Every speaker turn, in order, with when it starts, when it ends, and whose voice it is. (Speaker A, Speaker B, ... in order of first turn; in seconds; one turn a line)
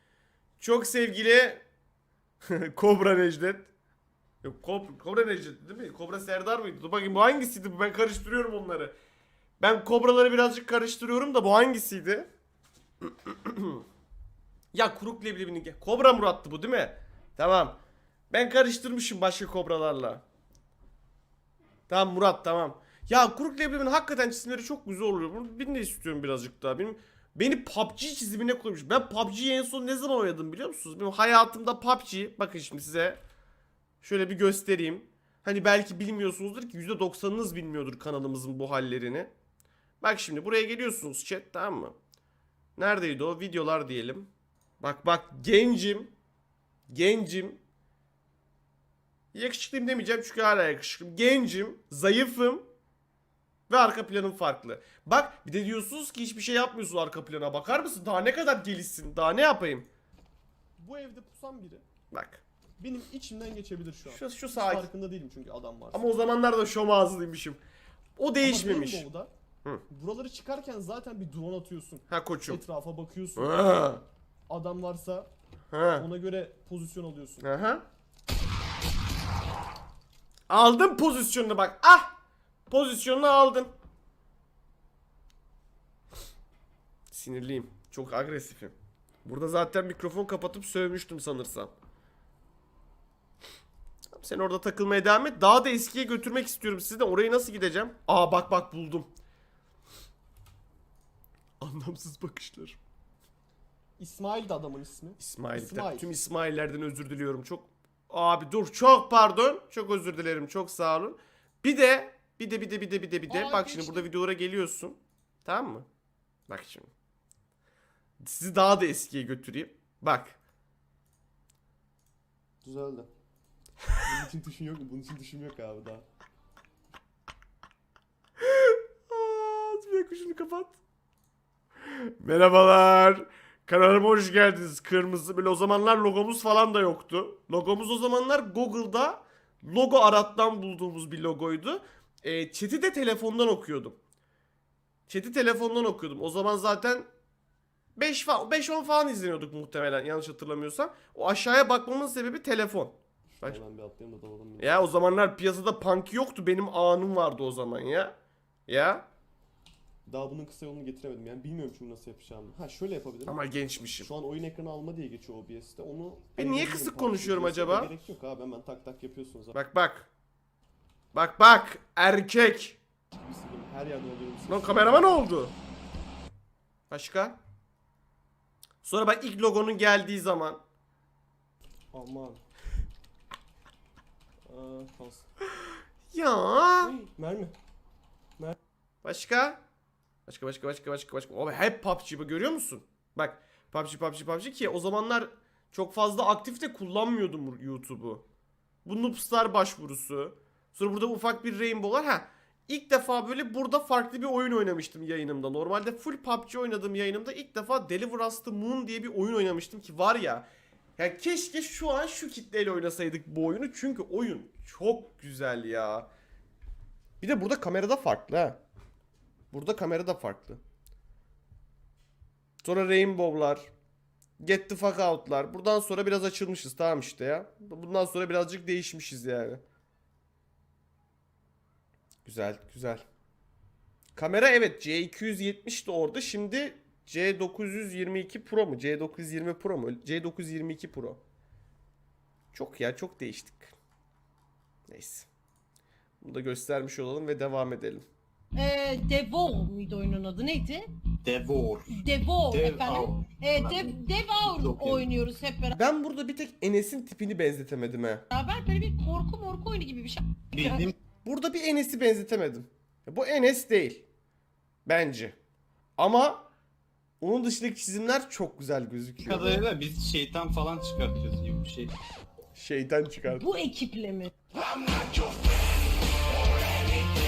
Speaker A: 0.6-1.6
Speaker A: 2.4-3.7
Speaker A: 4.4-8.9
Speaker A: 9.6-12.3
Speaker A: 13.0-13.8
Speaker A: 14.7-17.8
Speaker A: 18.3-20.2
Speaker A: 21.9-33.2
Speaker A: 34.0-39.3
Speaker A: 40.0-41.9
Speaker A: 42.8-44.3
Speaker A: 44.8-46.1
Speaker A: 46.9-47.6
Speaker A: 49.3-52.7
Speaker A: 53.7-59.9
Speaker B: 60.8-61.8
Speaker A: 62.1-62.4
Speaker B: 62.8-66.1
Speaker A: 64.1-64.9
Speaker A: 65.9-67.6
Speaker A: 68.2-69.0
Speaker B: 68.4-69.3
Speaker B: 69.9-73.9
Speaker A: 72.1-72.6
Speaker A: 73.4-74.0
Speaker B: 74.5-75.3
Speaker A: 75.7-76.1
Speaker B: 75.9-77.5
Speaker A: 77.4-77.8
Speaker A: 80.5-82.1
Speaker A: 82.7-83.7
Speaker A: 87.1-91.7
Speaker A: 94.1-99.1
Speaker A: 101.6-102.8
Speaker B: 104.0-106.2
Speaker A: 105.2-115.8
Speaker C: 113.3-114.0
Speaker A: 116.5-116.9
Speaker A: 118.2-120.4
Speaker B: 122.6-123.1
Speaker B: 124.0-126.0
Speaker A: 128.4-130.8
Speaker A: 131.9-144.0
Speaker A: 145.1-147.1
Speaker A: 147.9-153.6
Speaker B: 153.4-154.9
Speaker A: 154.6-158.1
Speaker A: 158.7-159.1
Speaker B: 160.1-163.4
Speaker A: 163.3-164.1
Speaker B: 164.0-169.5
Speaker A: 166.4-167.9
Speaker A: 169.5-170.1
Speaker A: 171.1-172.8
Speaker B: 173.1-175.2
Speaker A: 174.5-175.5
Speaker A: 176.9-177.4
Speaker A: 178.8-180.6
Speaker B: 181.9-182.4
Speaker B: 184.5-185.3
Speaker A: 186.1-186.9
Speaker B: 186.8-187.5
Speaker A: 189.0-189.6
Speaker A: 190.3-198.2
Speaker A: 198.8-216.1
Speaker A: 217.2-218.6
Speaker A: 219.5-220.6
Speaker A: 222.6-223.7
Speaker A: 224.4-229.6
Speaker A: 232.2-233.0
Speaker A: 234.2-241.2
Speaker A: 242.5-243.7
Speaker A: 244.9-245.3
Speaker A: 246.2-248.1
Speaker C: 248.5-250.9
Speaker D: 251.2-252.0
Speaker C: 251.9-255.8
Speaker D: 252.5-255.1
Speaker A: 255.7-258.2
Speaker C: 258.3-260.9
Speaker D: 260.5-260.9
Speaker A: 261.2-264.1
Speaker A: 264.9-265.4
Speaker A: 266.0-266.5
Speaker A: 267.2-269.6
Speaker D: 269.2-271.9
Speaker A: 272.6-273.5
Speaker C: 273.3-274.3